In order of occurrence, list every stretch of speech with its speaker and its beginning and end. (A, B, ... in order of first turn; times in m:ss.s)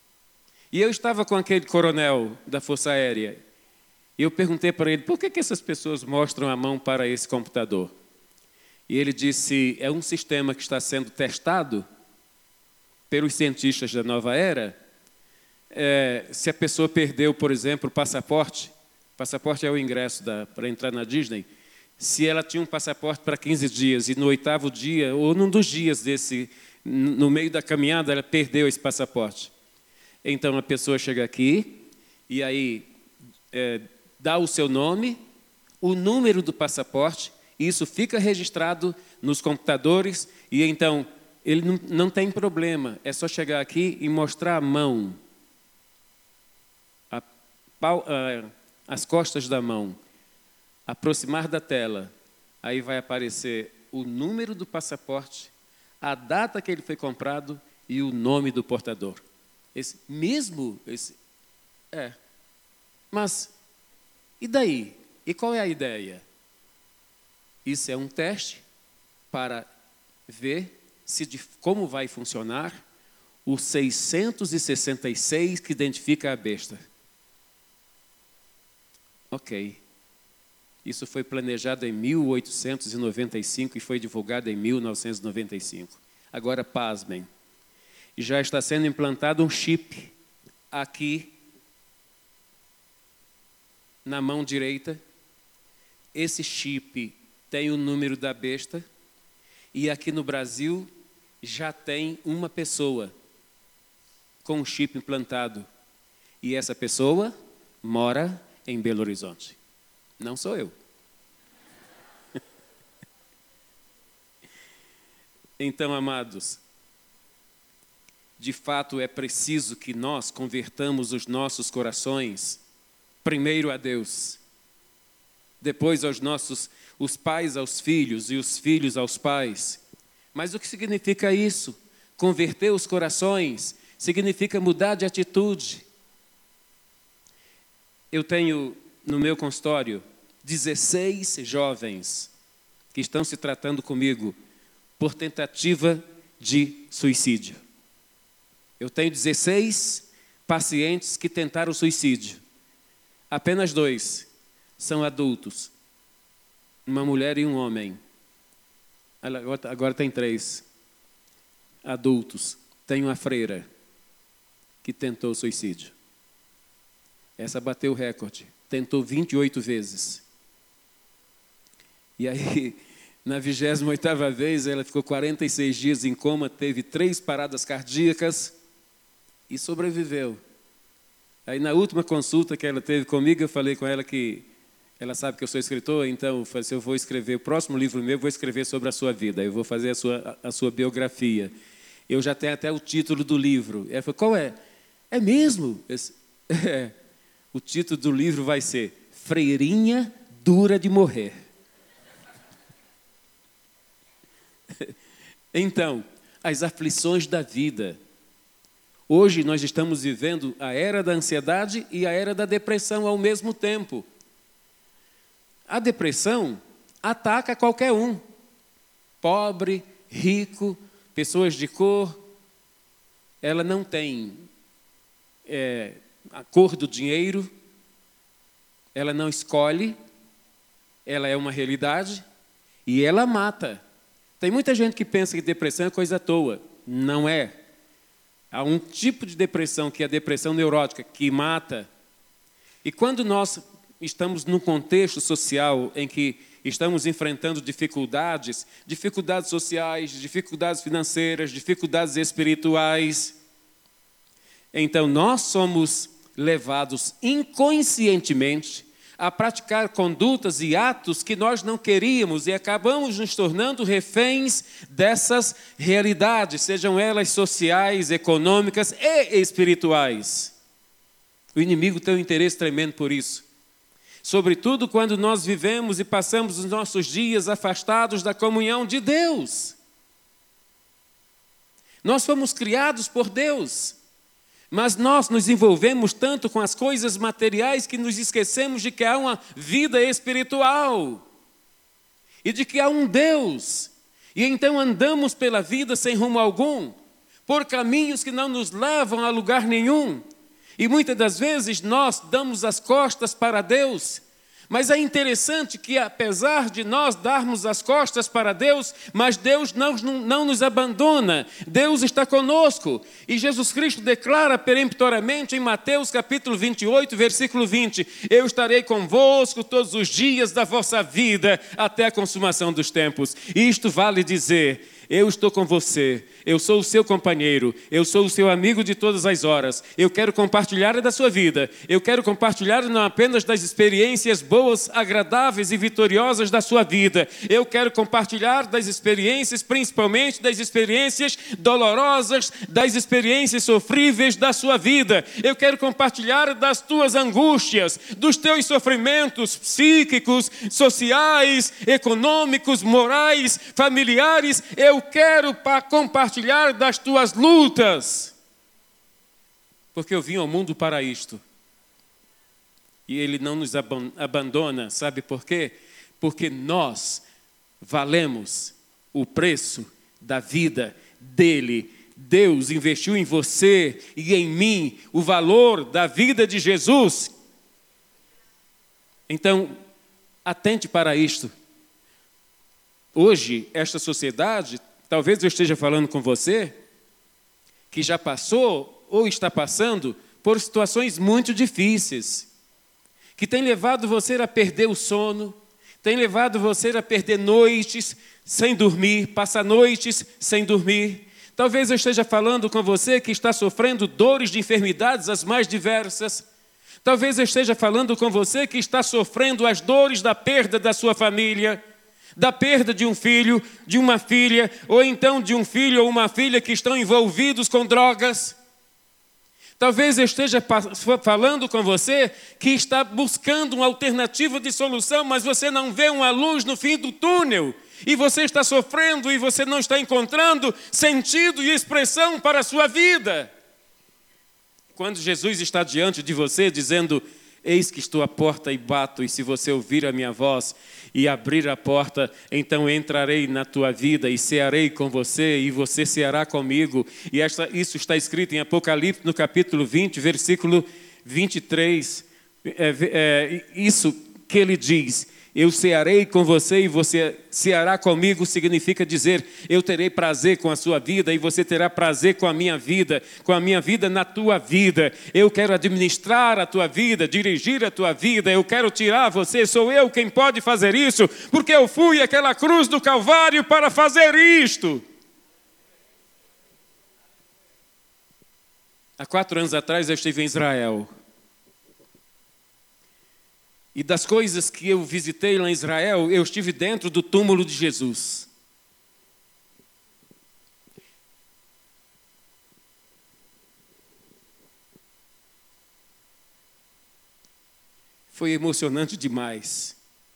0:00.7-0:03.4 A
0:04.2-0:07.9 A
0:08.9-0:11.8 A
0:13.1-0:14.8 A
0:15.7-0:21.4 A
0:22.0-0:29.5 A
0:30.2-0:32.9 A
0:33.5-0:35.2 A
0:35.8-0:45.2 A
0:47.8-0:50.0 A
0:50.9-0:52.1 A
0:52.6-0:59.2 A
0:59.7-1:01.2 A
1:01.9-1:02.2 A
1:03.1-1:03.5 A
1:04.4-1:06.2 A
1:07.6-1:08.6 A
1:09.3-1:09.7 A
1:10.3-1:12.8 A
1:13.4-1:16.8 A
1:19.3-1:19.8 A
1:20.8-1:27.3 A
1:28.2-1:30.1 A
1:30.7-1:31.3 A
1:34.0-1:35.0 A
1:36.1-1:38.8 A
1:39.7-1:40.9 A
1:41.4-1:43.1 A
1:44.4-1:45.7 A
1:46.4-1:49.6 A
1:50.2-1:50.7 A
1:55.6-1:56.6 A
1:58.4-2:02.6 A
2:03.2-2:04.4 A
2:05.6-2:09.8 A
2:10.3-2:15.8 A
2:18.1-2:22.3 A
2:22.9-2:24.4 A
2:25.0-2:27.6 A
2:28.8-2:32.4 A
2:33.3-2:35.7 A
2:36.8-2:38.0 A
2:39.2-2:40.6 A
2:41.8-2:43.7 A
2:44.8-2:45.9 A
2:47.4-2:50.2 A
2:52.2-2:58.5 A
2:59.5-3:00.4 A
3:01.5-3:04.5 A
3:05.0-3:11.5 A
3:12.1-3:14.6 A
3:15.1-3:16.9 A
3:17.5-3:21.3 A
3:25.5-3:28.0 A
3:29.1-3:34.1 A
3:35.7-3:38.2 A
3:39.2-3:42.2 A
3:43.4-3:44.5 A
3:45.4-3:47.5 A
3:48.9-3:50.0 A
3:51.0-3:52.2 A
3:52.8-3:53.8 A
3:54.4-3:57.5 A
3:58.5-4:01.9 A
4:02.8-4:13.4 A
4:14.7-4:30.5 A
4:31.5-4:33.4 A
4:34.2-4:39.8 A
4:42.0-4:44.0 A
4:44.7-4:51.2 A
4:52.4-4:57.0 A
4:57.5-5:00.2 A
5:00.8-5:58.3 A
5:59.9-6:01.4 A
6:03.1-6:07.2 A
6:07.8-6:17.3 A
6:19.3-6:19.8 A
6:20.4-6:21.5 A
6:23.1-6:26.8 A
6:27.9-6:32.5 A
6:33.4-6:46.5 A
6:47.0-6:51.8 A
6:52.4-6:58.6 A
6:59.8-7:13.5 A
7:14.9-7:55.0 A
7:59.2-8:01.1 A
8:03.9-8:08.5 A
8:18.3-8:20.0 A